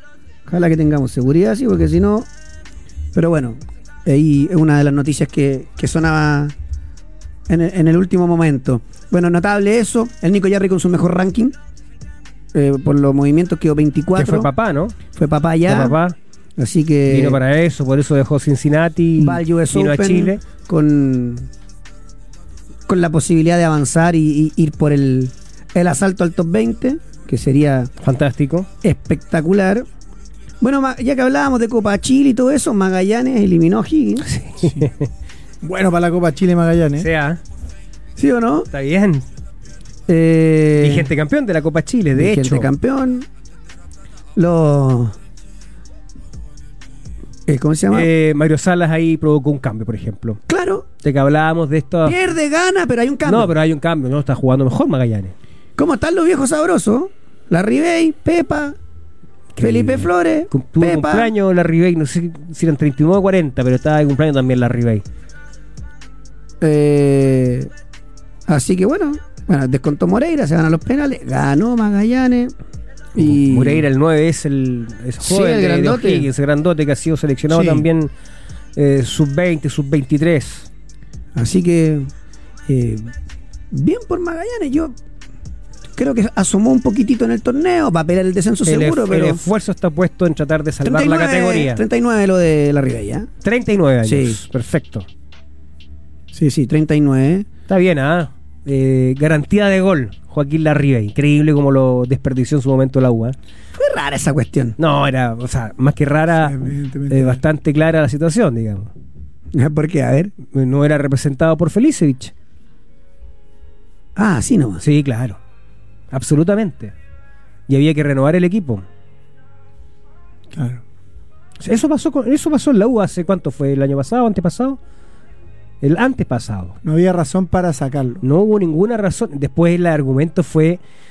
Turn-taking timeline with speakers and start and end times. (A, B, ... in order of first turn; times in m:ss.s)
0:00.5-0:02.3 A
0:03.1-0:06.6 A
0:07.5-0:11.6 A
0:12.5-0:14.5 A
0:14.2-0:15.0 B
0:15.1-0:15.9 A
0:15.6-0:16.1 B
0:16.6-0:17.4 A
0:17.1-0:20.4 B
0:19.2-0:21.5 A
0:22.9-0:27.9 A
0:28.0-0:28.7 B
0:28.8-0:29.9 A
0:30.6-0:34.3 A
0:34.3-0:35.1 B
0:34.6-0:34.9 C
0:35.6-0:37.1 C
0:37.0-0:37.4 B
0:38.2-0:38.7 A
0:38.7-0:39.2 B
0:40.1-0:41.1 A
0:40.8-0:42.7 B
0:42.2-0:43.3 A
0:44.4-0:45.1 A
0:47.5-0:48.1 A
0:47.9-0:50.4 B
0:50.5-0:50.9 A
0:51.0-0:52.2 B
0:52.0-0:53.5 A
0:53.2-0:55.3 B
0:55.8-0:58.8 A
0:59.6-1:05.0 B
0:59.6-1:01.3 A
1:06.6-1:07.7 A
1:08.5-1:12.5 A
1:13.1-1:13.8 A
1:13.2-1:18.1 B
1:15.2-1:16.3 A
1:17.5-1:17.8 C
1:18.8-1:20.7 B
1:21.4-1:22.1 A
1:22.7-1:23.1 A
1:23.7-1:25.0 A
1:26.0-1:29.4 A
1:28.6-1:31.8 B
1:30.8-1:33.3 A
1:33.4-1:35.1 B
1:34.0-1:34.4 A
1:36.3-1:37.5 A
1:37.7-1:43.4 B
1:43.8-1:44.8 A
1:44.8-1:48.9 B
1:46.4-1:47.4 C
1:49.5-1:50.3 A
1:50.4-1:52.3 B
1:54.2-1:54.8 A
1:54.8-1:55.4 B
1:56.1-1:56.9 B
1:57.7-1:58.8 B
2:00.5-2:00.8 C
2:01.6-2:04.8 B
2:05.8-2:06.8 B
2:06.8-2:08.2 C
2:08.2-2:10.8 B